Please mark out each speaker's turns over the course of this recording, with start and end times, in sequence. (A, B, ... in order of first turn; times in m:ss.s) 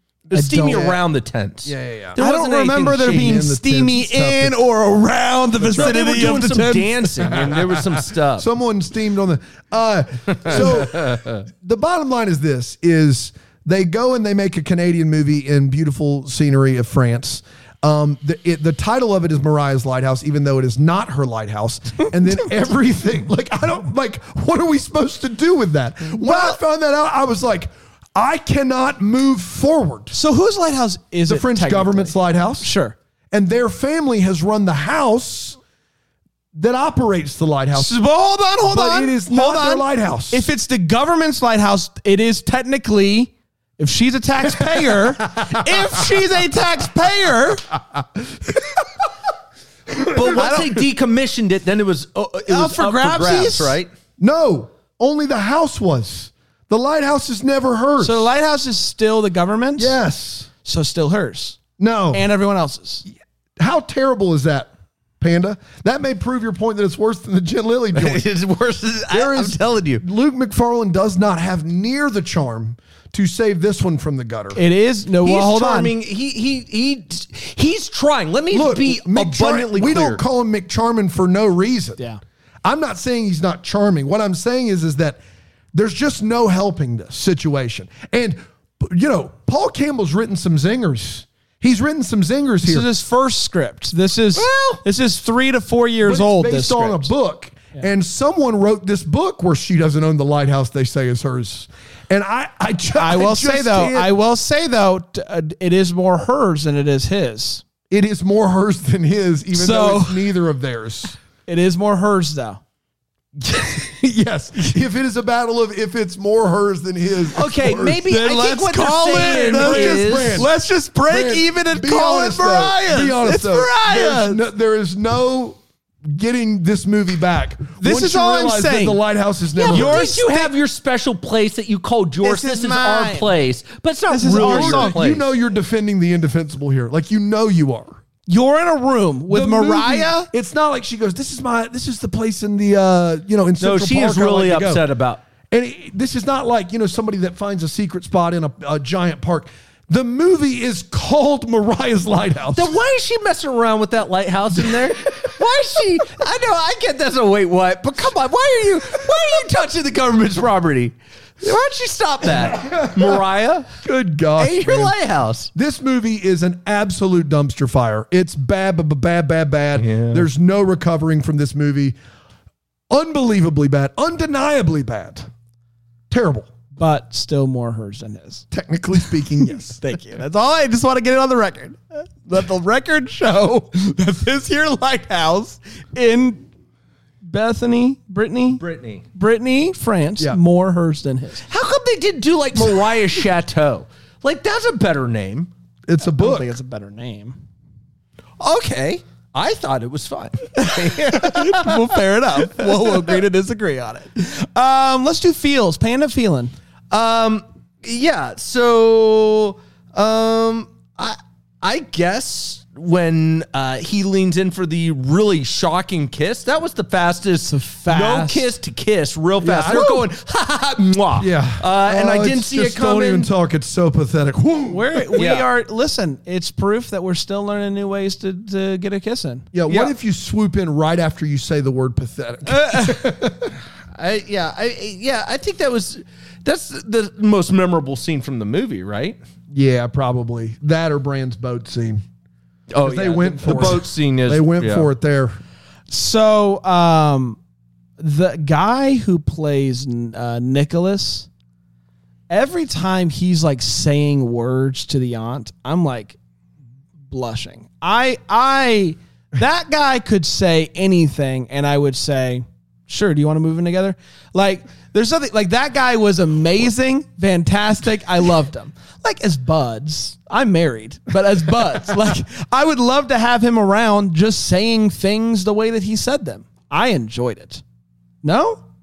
0:00.3-0:03.4 A
0:00.3-0:01.0 B
0:00.3-0:00.9 C
0:01.6-0:02.2 B
0:02.2-0:07.1 C
0:03.0-0:04.6 B
0:05.6-0:06.4 B
0:05.7-0:08.5 A
0:07.2-0:30.1 B
0:10.4-0:11.4 A
0:26.2-0:26.6 C
0:30.1-0:33.0 C
0:31.3-0:32.7 B
0:33.3-0:35.6 B
0:36.5-0:38.0 B
0:37.7-0:47.7 C
0:38.7-0:40.5 B
0:44.5-0:46.2 B
0:47.9-0:48.9 B
0:49.9-0:50.6 B
0:50.1-0:53.9 A
0:50.3-0:50.7 C
0:52.5-0:53.8 C
0:54.2-0:58.3 B
0:58.0-1:00.0 C
0:59.8-1:00.5 B
1:00.6-1:01.6 C
1:01.8-1:02.3 B
1:02.1-1:03.0 C
1:03.6-1:04.7 B
1:05.2-1:08.2 B
1:08.0-1:10.0 A
1:09.1-1:14.6 B
1:14.6-1:15.9 C
1:15.2-1:20.2 A
1:18.5-1:22.0 B
1:22.6-1:25.2 B
1:25.7-1:32.9 B
1:32.6-1:37.1 C
1:34.4-1:34.8 A
1:36.0-1:44.1 B
1:43.0-1:47.6 C
1:47.9-1:51.2 B
1:49.5-1:50.3 C
1:51.5-1:52.6 C
1:53.4-1:58.0 B
1:57.3-2:00.5 A
1:58.0-2:04.4 C
1:59.1-2:00.5 B
2:01.1-2:10.1 B
2:07.8-2:09.0 C
2:09.6-2:15.2 A
2:09.6-2:10.5 C
2:12.2-2:13.3 C
2:14.1-2:15.0 C
2:14.2-2:18.0 B
2:18.3-2:20.3 C
2:19.3-2:24.8 B
2:23.6-2:25.2 A
2:25.5-2:32.7 B
2:32.6-2:43.8 A
2:42.5-2:43.2 B
2:43.8-2:45.0 B
2:44.4-2:45.5 A
2:45.6-2:52.0 B
2:49.8-2:50.2 A
2:52.9-2:55.3 B
2:56.1-2:56.5 B
2:56.8-2:58.5 C
2:58.5-2:59.8 B
2:59.8-3:06.5 C
3:07.2-3:08.6 C
3:08.6-3:09.0 A
3:09.1-3:11.5 C
3:11.5-3:15.5 A
3:15.9-3:16.5 B
3:16.1-3:17.4 C
3:18.4-3:23.2 A
3:20.6-3:26.5 C
3:26.9-3:43.3 A
3:37.5-3:38.5 C
3:39.4-3:40.1 B
3:41.2-3:45.2 B
3:44.7-3:49.5 C
3:45.2-3:45.5 A
3:49.5-3:53.5 B
3:52.5-3:53.0 C
3:53.9-3:59.2 A
3:59.5-4:02.0 B
4:02.7-4:04.9 A
4:02.8-4:05.4 B
4:05.9-4:07.4 C
4:08.0-4:11.3 C
4:12.3-4:16.2 C
4:17.1-4:37.6 C
4:38.2-4:38.6 C